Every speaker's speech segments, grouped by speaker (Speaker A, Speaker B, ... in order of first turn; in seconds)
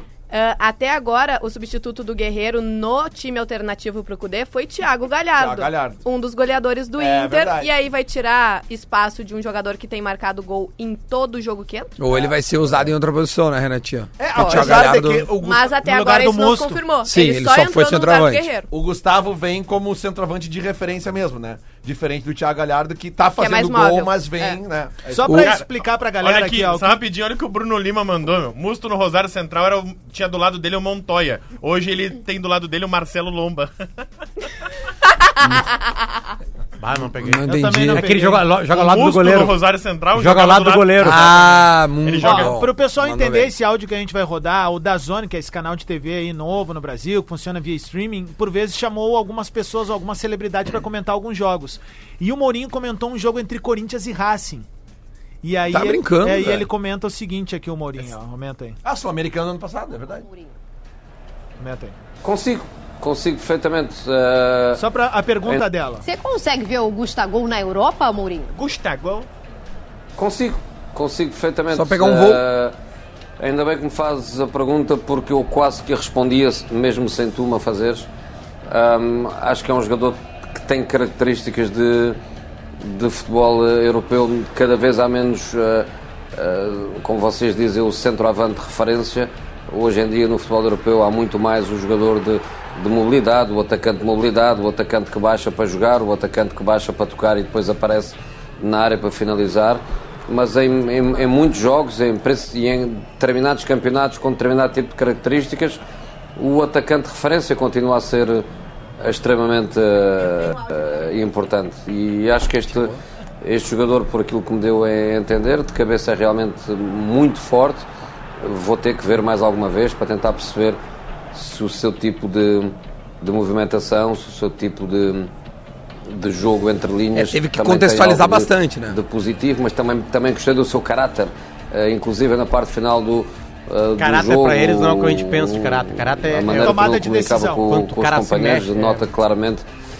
Speaker A: 0.3-11.9, 14.4-18.7, 23.4-24.6
Speaker B: 5.3-6.0, 7.0-7.7, 14.2-15.8, 18.7-25.4, 58.8-60.3
Speaker C: 12.0-15.3, 17.0-18.5, 25.2-25.5, 37.2-38.1, 41.0-43.5, 55.7-56.7, 71.7-72.4, 127.1-129.0
Speaker D: 15.8-16.9, 25.1-27.0, 37.5-38.5, 42.2-54.7, 55.4-58.8, 61.6-62.0, 64.7-66.0, 136.5-137.7
Speaker E: 25.4-25.7, 26.2-33.7, 38.7-42.6, 68.6-69.3
Speaker F: 36.8-39.6, 40.1-41.3, 134.0-136.9, 137.6-139.1
Speaker G: 62.2-64.8, 70.2-72.7, 73.4-78.1, 78.7-82.2, 82.8-105.8, 106.4-108.5, 109.0-117.9, 118.4-120.8, 121.3-125.3, 126.1-139.6
Speaker H: 66.0-68.5